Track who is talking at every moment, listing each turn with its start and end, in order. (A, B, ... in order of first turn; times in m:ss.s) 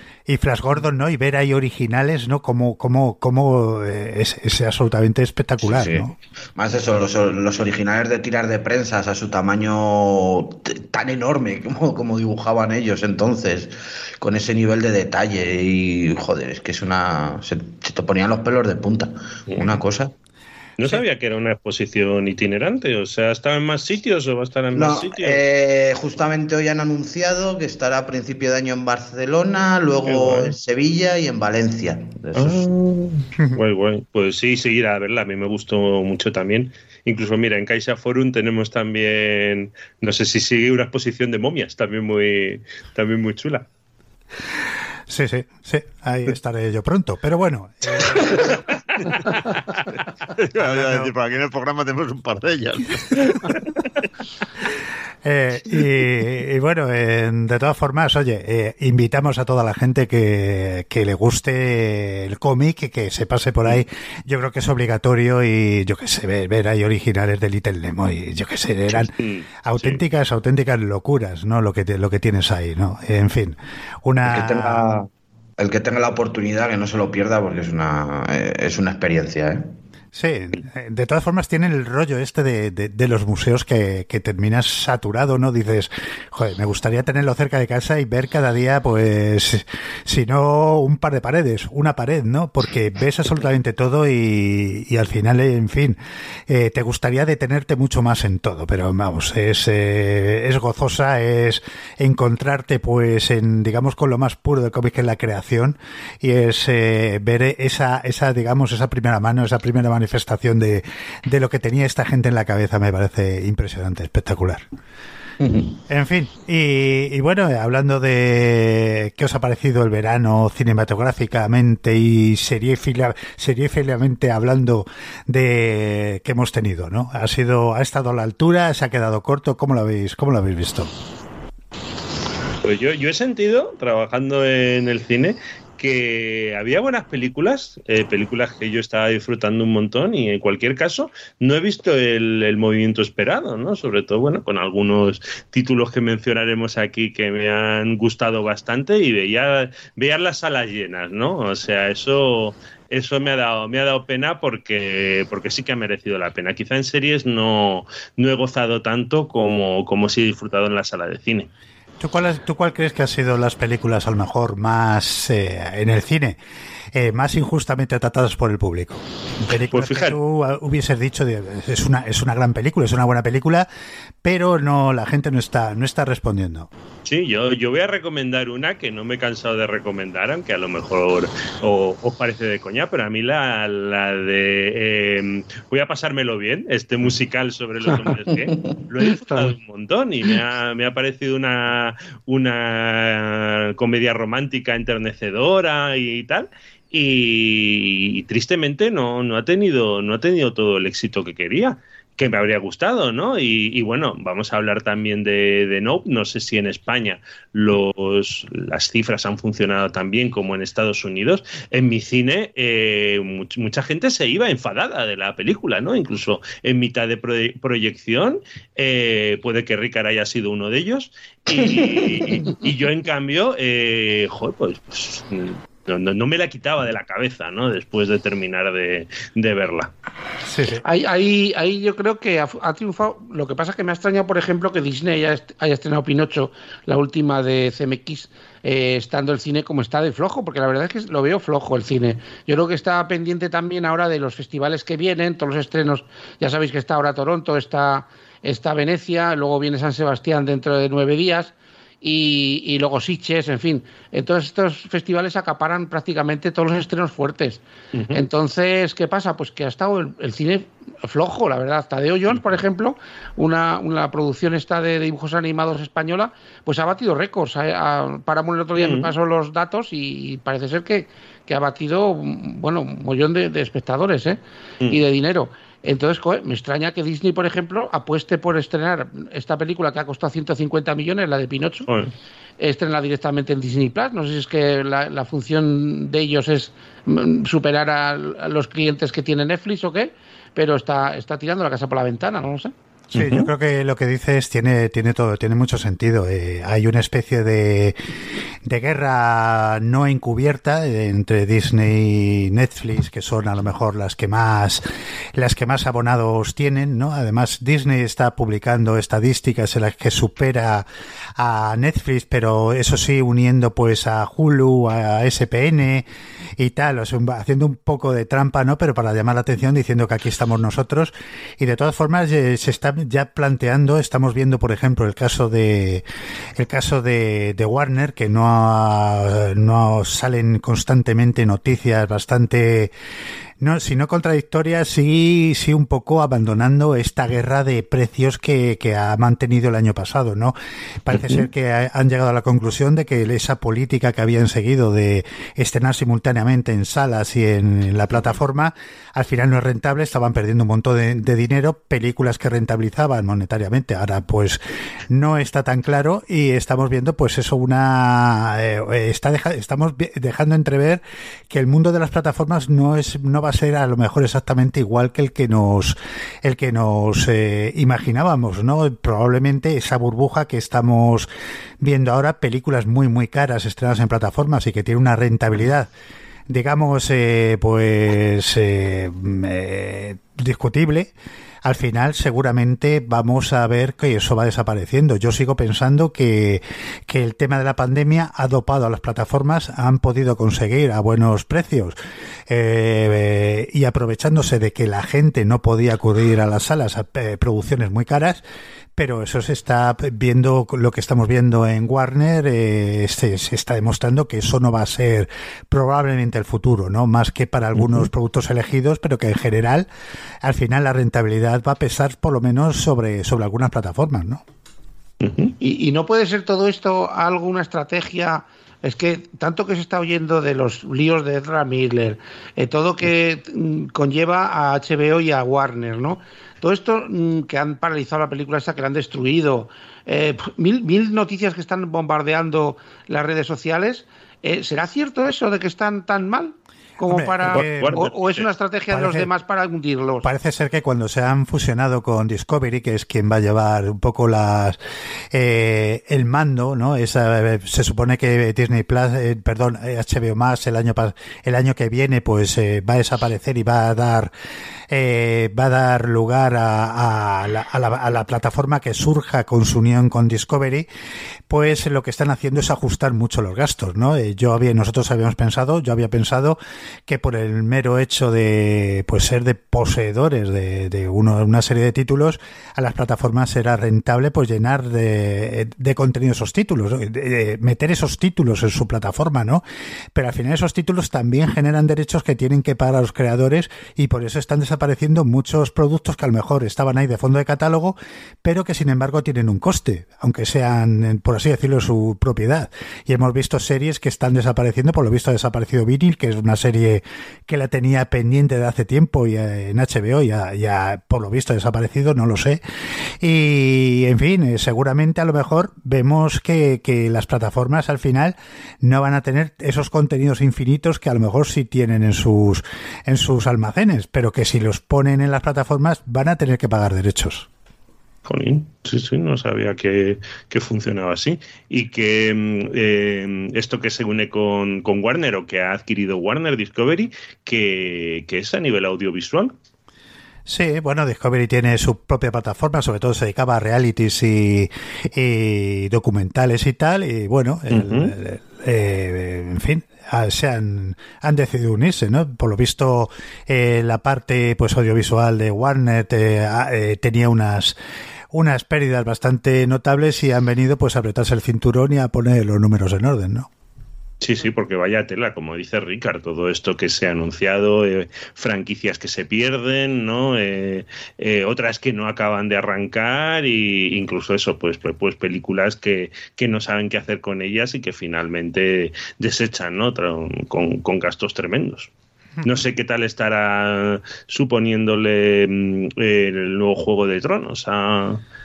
0:00.2-0:06.1 A
0:05.6-0:20.1 B
0:19.5-0:19.8 C
0:20.8-0:25.4 C
0:24.7-0:32.7 B
0:30.0-0:30.6 C
0:32.3-0:43.6 C
0:45.1-0:48.6 A
0:50.3-0:53.6 D
0:50.6-0:51.1 A
0:55.2-1:14.9 A
1:08.9-1:10.0 C
1:14.2-1:19.6 B
1:20.1-1:36.0 A
1:36.5-1:54.6 A
1:55.4-1:55.8 B
1:55.9-2:10.9 A
2:12.6-2:41.5 C
2:42.0-2:46.4 A
2:46.9-2:53.7 A
2:49.7-2:50.2 C
2:54.2-2:56.7 A
2:57.0-3:49.9 C
3:09.0-3:09.5 E
3:41.5-3:42.4 B
3:50.4-3:50.8 A
3:50.8-4:41.9 E
4:17.9-4:18.2 C
4:28.8-4:29.1 C
4:41.9-4:42.1 C
4:42.6-4:52.7 E
4:53.1-4:58.0 A
4:53.1-4:53.5 C
4:58.6-5:04.8 A
5:05.3-5:16.0 A
5:16.6-5:26.0 A
5:26.6-5:32.9 A
5:33.6-6:11.3 A
5:41.1-5:41.4 C
6:11.8-6:15.9 A
6:16.5-6:21.1 A
6:21.6-6:32.0 A
6:32.5-6:38.4 A
6:38.9-6:49.9 A
6:50.4-6:54.4 A
6:55.2-6:55.5 C
6:55.6-7:20.3 E
7:17.0-7:18.1 A
7:17.4-7:18.5 C
7:18.9-7:19.3 A
7:20.2-7:24.8 A
7:25.3-7:34.3 A
7:34.9-7:40.9 A
7:41.5-8:22.6 A
8:23.2-8:37.5 A
8:38.2-8:49.5 C
8:50.4-9:07.8 A
8:57.7-8:58.1 C
9:08.3-9:13.5 A
9:14.2-9:31.9 C
9:32.4-9:38.2 C